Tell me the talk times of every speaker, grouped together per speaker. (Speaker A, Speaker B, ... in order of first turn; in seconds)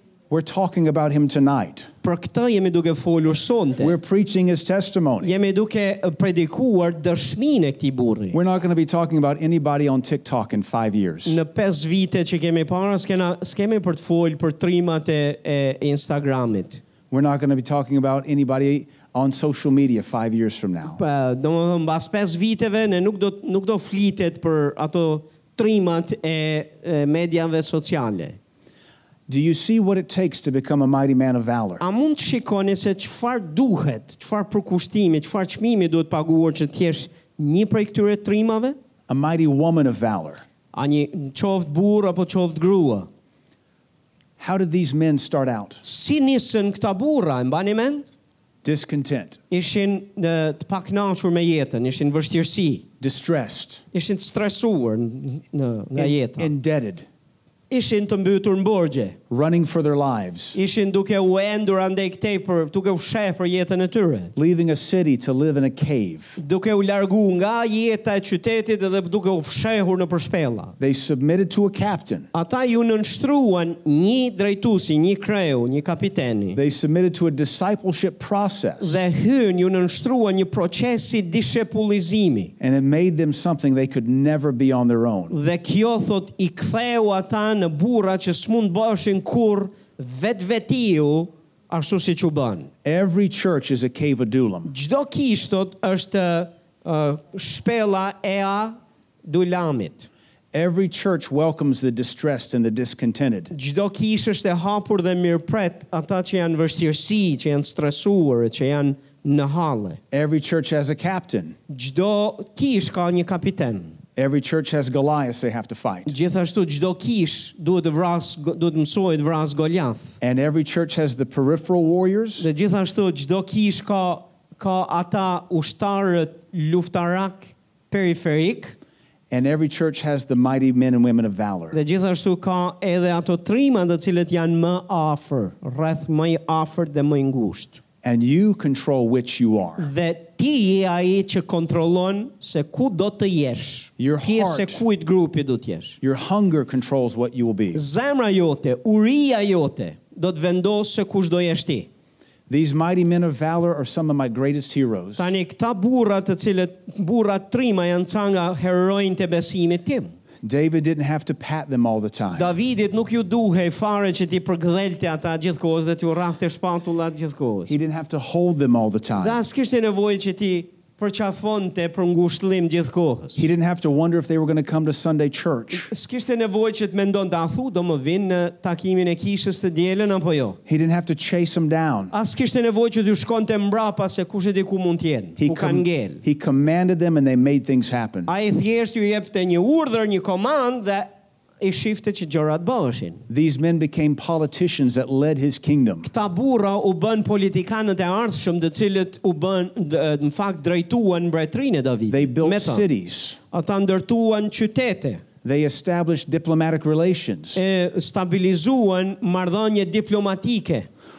Speaker A: 0.3-1.9, 3.8-5.3, 8.3-11.4, 17.1-21.0, 29.3-31.8, 39.1-40.4, 44.4-45.8, 48.6-49.4, 53.0-53.8, 56.0-57.0, 59.3-60.6, 64.3-66.4, 70.8-72.3, 76.5-79.0, 82.6-85.4, 92.8-94.7, 100.5-103.5, 110.1-111.6, 114.2-116.2, 120.2-122.5, 129.3-131.8, 138.0-139.9, 144.0-144.8, 146.0-147.8, 152.5-155.3, 160.4-162.5, 167.7-169.4, 173.4-175.9, 180.7-182.1, 185.4-188.3, 193.3-196.1, 202.1-203.4, 205.4-207.6
Speaker B: 2.0-3.9, 5.2-8.4, 11.2-16.8, 20.9-28.4, 31.8-38.8, 40.7-43.1, 45.8-48.1, 49.5-52.9, 53.9-56.5, 57.7-59.2, 60.5-64.3, 66.4-70.7, 72.3-76.6, 78.8-82.5, 85.3-92.7, 94.7-98.7, 99.3-100.1, 103.5-110.0, 111.7-114.0, 116.1-120.2, 122.4-128.8, 131.7-137.8, 139.8-146.0, 147.7-151.9, 155.2-160.1, 162.3-167.7, 169.2-173.4, 175.7-180.6, 182.1-186.2, 188.3-193.2, 196.0-202.8, 203.5-205.2, 207.6-210.9